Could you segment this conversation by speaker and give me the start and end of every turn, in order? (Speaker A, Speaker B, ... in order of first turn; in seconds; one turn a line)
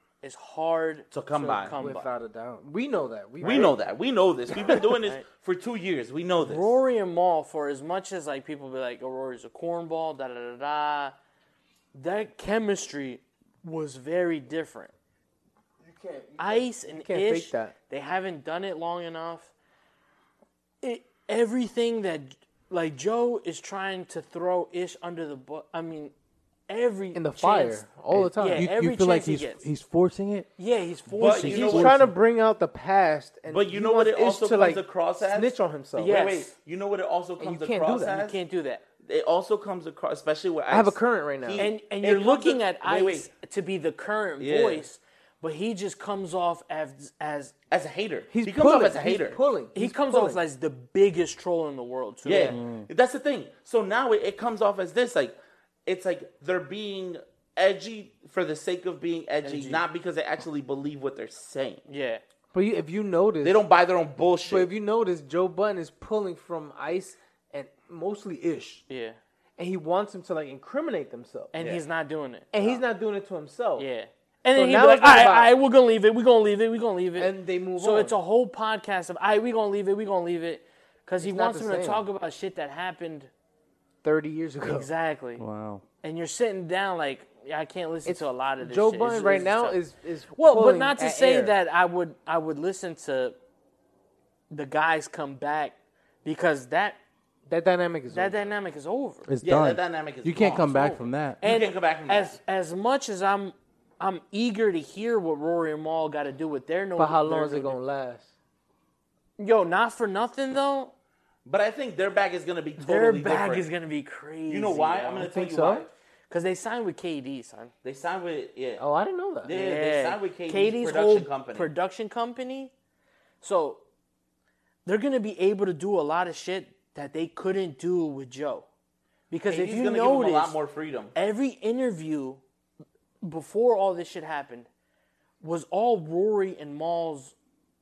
Speaker A: 0.2-2.1
Speaker B: 1.1-1.8
Speaker C: 1.7-3.8
Speaker B: 3.4-6.8
Speaker A: 4.8-5.2
Speaker A: 6.4-11.2
Speaker A: 11.9-14.9
Speaker C: 15.8-17.7
Speaker A: 16.4-19.5
Speaker A: 20.8-26.1
Speaker A: 26.7-29.7
Speaker C: 27.1-28.7
Speaker D: 28.1-30.5
Speaker A: 30.6-31.9
Speaker D: 31.1-32.1
Speaker B: 31.2-32.0
Speaker C: 31.7-36.2
Speaker B: 33.5-38.4
Speaker A: 36.0-36.5
Speaker C: 37.4-38.2
Speaker A: 38.1-38.8
Speaker B: 39.0-43.3
Speaker C: 40.7-41.7
Speaker A: 41.6-47.5
Speaker B: 44.4-44.8
Speaker B: 47.7-49.4
Speaker C: 48.3-50.4
Speaker A: 49.8-52.6
Speaker B: 52.2-61.9
Speaker D: 52.5-52.9
Speaker A: 59.4-59.9
Speaker A: 61.9-62.2
Speaker C: 62.5-63.6
Speaker B: 63.4-64.7
Speaker C: 64.5-68.8
Speaker A: 68.9-69.2
Speaker C: 69.6-71.5
Speaker A: 71.5-72.5
Speaker B: 71.6-71.8
Speaker C: 72.5-73.9
Speaker A: 73.8-83.3
Speaker C: 74.5-75.5
Speaker C: 77.2-78.2
Speaker C: 81.2-82.1
Speaker C: 84.0-84.9
Speaker A: 84.7-85.4
Speaker D: 85.4-85.8
Speaker A: 86.0-89.8
Speaker C: 88.0-91.5
Speaker A: 90.3-93.4
Speaker A: 94.5-97.0
Speaker C: 97.5-98.5
Speaker A: 98.1-99.3
Speaker D: 99.3-101.4
Speaker B: 99.4-100.8
Speaker A: 100.5-107.8
Speaker B: 101.4-102.4
Speaker C: 107.0-108.3
Speaker A: 109.4-110.9
Speaker B: 111.5-113.7
Speaker A: 112.8-115.3
Speaker B: 114.5-115.9
Speaker C: 115.2-115.9
Speaker A: 116.3-117.7
Speaker B: 117.8-118.8
Speaker C: 118.8-119.5
Speaker B: 119.4-121.7
Speaker A: 119.5-122.7
Speaker A: 123.4-123.8
Speaker A: 124.8-128.7
Speaker A: 129.3-130.6
Speaker B: 129.5-131.2
Speaker A: 131.2-132.4
Speaker A: 133.2-134.7
Speaker A: 135.4-137.3